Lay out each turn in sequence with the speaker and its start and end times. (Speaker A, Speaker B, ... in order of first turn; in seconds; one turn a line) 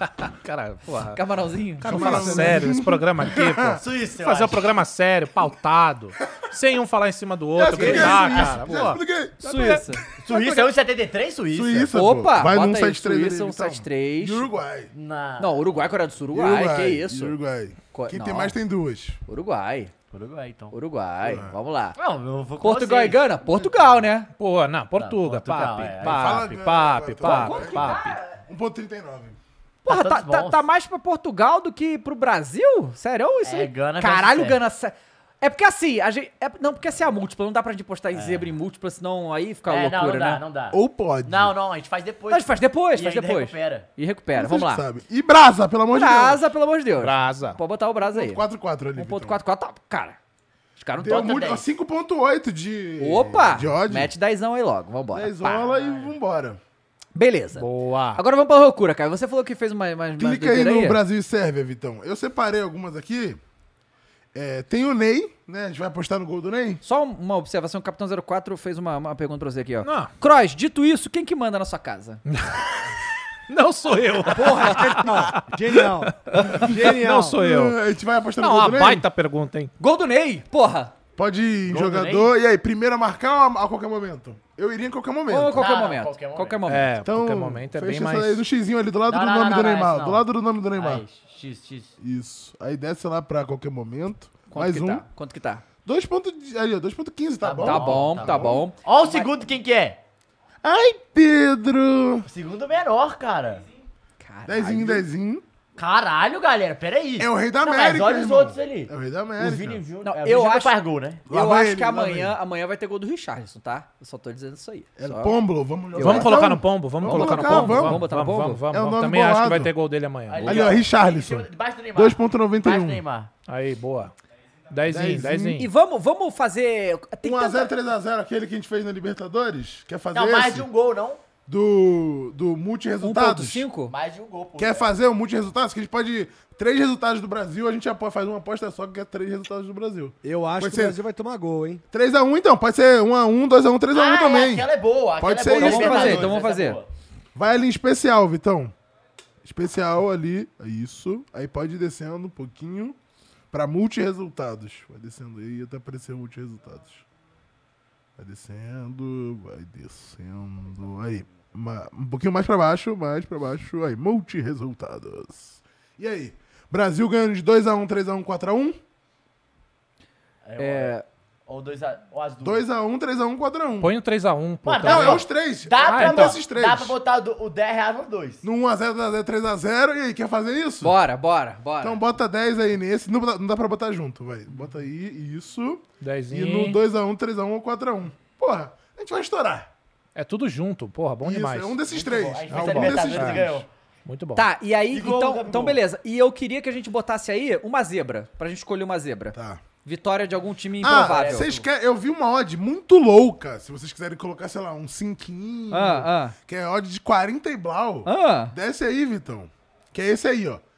Speaker A: 0.2-1.2
Speaker B: 1.1-2.6
Speaker A: 1.8-9.8
Speaker C: 1.8-3.8
Speaker D: 3.8-4.7
Speaker C: 7.5-9.4
Speaker B: 7.8-8.6
Speaker B: 9.4-10.0
Speaker D: 10.2-11.9
Speaker C: 11.5-14.9
Speaker B: 11.9-14.5
Speaker D: 14.9-16.0
Speaker B: 15.4-17.4
Speaker C: 16.3-19.2
Speaker B: 17.9-18.6
Speaker B: 19.3-19.9
Speaker D: 20.1-20.8
Speaker B: 20.7-22.0
Speaker C: 21.2-21.5
Speaker D: 22.0-23.6
Speaker B: 22.6-24.3
Speaker A: 24.4-28.2
Speaker D: 25.0-26.7
Speaker C: 26.0-29.4
Speaker B: 27.2-28.4
Speaker B: 29.9-40.4
Speaker D: 29.9-30.6
Speaker D: 33.4-34.6
Speaker D: 38.1-38.5
Speaker D: 39.7-43.9
Speaker C: 40.7-41.5
Speaker B: 42.3-44.9
Speaker C: 44.3-46.4
Speaker B: 45.9-48.5
Speaker A: 47.0-47.6
Speaker C: 48.0-49.4
Speaker B: 49.0-50.2
Speaker B: 50.8-51.3
Speaker C: 51.0-54.1
Speaker D: 51.0-51.7
Speaker B: 53.0-55.6
Speaker C: 55.1-56.6
Speaker D: 55.4-56.2
Speaker B: 57.1-61.0
Speaker A: 57.6-58.2
Speaker C: 60.2-63.4
Speaker C: 64.3-66.8
Speaker B: 66.8-72.2
Speaker A: 69.8-70.1
Speaker A: 72.3-72.7
Speaker A: 73.5-75.4
Speaker E: 74.3-77.4
Speaker A: 76.3-77.8
Speaker C: 77.3-79.1
Speaker A: 78.4-79.7
Speaker B: 79.8-80.9
Speaker C: 81.2-85.7
Speaker B: 81.7-82.3
Speaker B: 85.3-87.0
Speaker D: 85.6-86.6
Speaker A: 86.7-88.4
Speaker C: 87.0-91.0
Speaker D: 89.1-92.0
Speaker C: 92.0-95.0
Speaker B: 94.5-95.6
Speaker C: 95.8-98.7
Speaker D: 97.4-100.0
Speaker B: 97.6-99.3
Speaker C: 100.6-102.3
Speaker D: 102.3-103.7
Speaker B: 104.2-105.0
Speaker C: 104.5-105.4
Speaker D: 105.8-111.2
Speaker C: 107.2-109.9
Speaker B: 110.0-110.8
Speaker C: 111.3-112.3
Speaker B: 111.3-115.4
Speaker C: 115.0-118.1
Speaker B: 115.9-116.3
Speaker A: 116.0-120.6
Speaker B: 117.1-118.6
Speaker C: 118.7-119.7
Speaker D: 120.3-123.3
Speaker C: 120.4-123.0
Speaker A: 123.5-124.1
Speaker A: 124.7-125.7
Speaker C: 124.9-125.6
Speaker B: 125.6-127.7
Speaker C: 127.2-130.7
Speaker D: 130.1-131.2
Speaker C: 131.5-133.7
Speaker B: 133.0-133.9
Speaker D: 133.9-134.9
Speaker C: 134.6-141.0
Speaker E: 140.2-141.8
Speaker C: 141.9-146.4
Speaker D: 143.9-146.9
Speaker B: 145.5-146.8
Speaker C: 147.3-148.7
Speaker C: 149.4-153.0
Speaker C: 153.5-157.0
Speaker C: 158.2-168.8
Speaker D: 170.4-172.7
Speaker B: 170.6-171.1
Speaker C: 172.4-173.9
Speaker A: 173.8-175.3
Speaker D: 174.7-178.4
Speaker C: 174.8-176.9
Speaker A: 175.8-176.4
Speaker C: 178.4-180.9
Speaker B: 180.8-182.0
Speaker C: 181.8-189.7
Speaker A: 186.0-186.8
Speaker A: 190.2-191.8
Speaker C: 191.2-193.7
Speaker D: 191.9-193.7
Speaker A: 192.6-193.4
Speaker A: 194.1-194.4
Speaker B: 194.4-201.5
Speaker D: 194.9-195.8
Speaker C: 199.3-199.6
Speaker C: 200.8-210.6
Speaker D: 200.9-201.7
Speaker B: 205.7-206.3
Speaker B: 208.1-208.5